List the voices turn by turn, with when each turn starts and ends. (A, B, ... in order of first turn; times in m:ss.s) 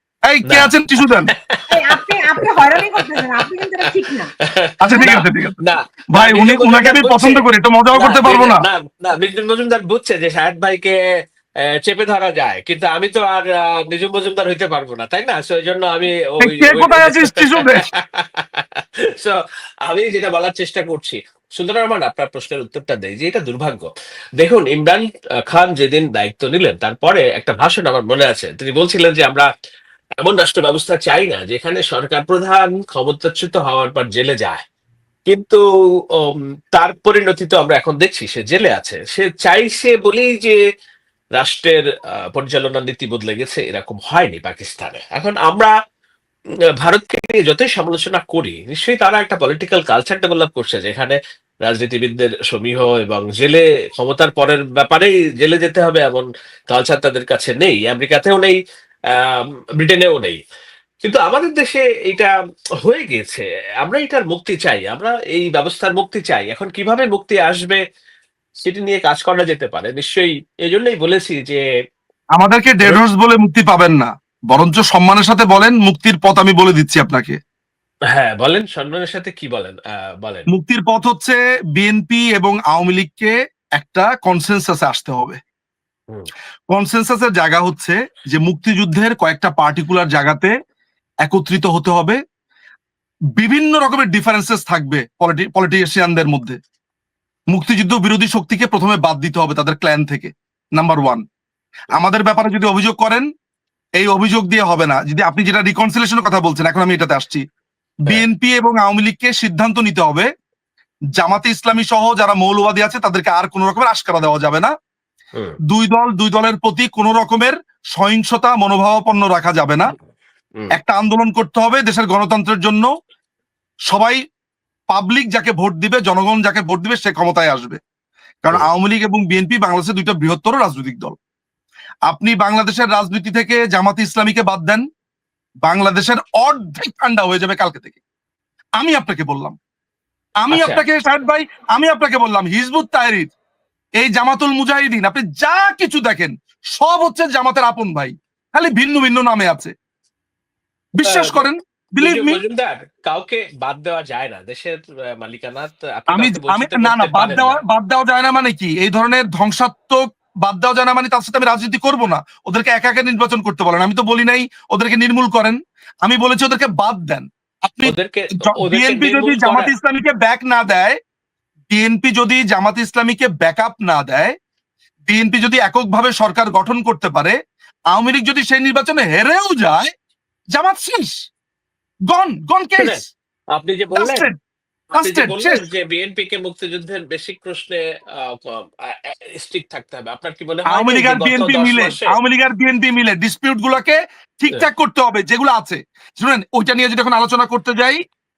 0:00.3-0:01.3 A
0:01.3-0:03.8 B
0:01.7-0:04.3 C
0:04.5-0:11.0 B
0:04.8-0:05.6 A
0:06.1-0:08.6 A
0:11.7-0:29.5 B
0:16.4-0:17.8 A
0:30.2-0:34.6 B
0:35.3-0:35.6 B
0:36.2-0:40.6 B
0:41.4-0:45.7 B
0:46.8-0:58.6 B
0:59.1-1:00.4 B
1:01.0-1:02.3 B
1:02.8-1:07.8 B
1:08.6-1:11.6 B
1:12.4-1:17.4 A
1:18.1-1:20.4 B
1:20.5-1:25.4 A
1:26.7-1:30.5 A
1:31.2-1:32.2 A
1:33.4-1:36.6 A
1:37.5-1:41.2 A
1:41.9-1:43.3 A
1:44.0-1:47.4 A
1:48.0-1:50.3 A
1:51.2-1:54.7 A
1:55.7-1:59.9 A
2:00.7-2:02.9 A
2:03.9-2:04.2 A
2:04.9-2:07.8 A
2:08.4-2:11.1 A
2:12.1-2:14.8 A
2:15.6-2:18.0 A
2:18.8-2:19.5 A
2:20.4-2:23.3 A
2:20.5-2:20.8 B
2:24.0-2:29.7 A
2:31.0-2:32.4 A
2:31.0-2:31.5 B
2:32.0-2:37.6 B
2:36.1-2:51.0 A
2:47.8-2:49.7 B
2:51.7-2:54.3 A
2:55.1-2:57.4 A
2:57.9-2:59.9 A
3:00.5-3:01.1 A
3:02.1-3:03.0 A
3:02.8-3:04.3 B
3:03.9-3:04.4 A
3:04.9-3:05.7 A
3:04.9-3:12.2 B
3:10.7-3:18.0 A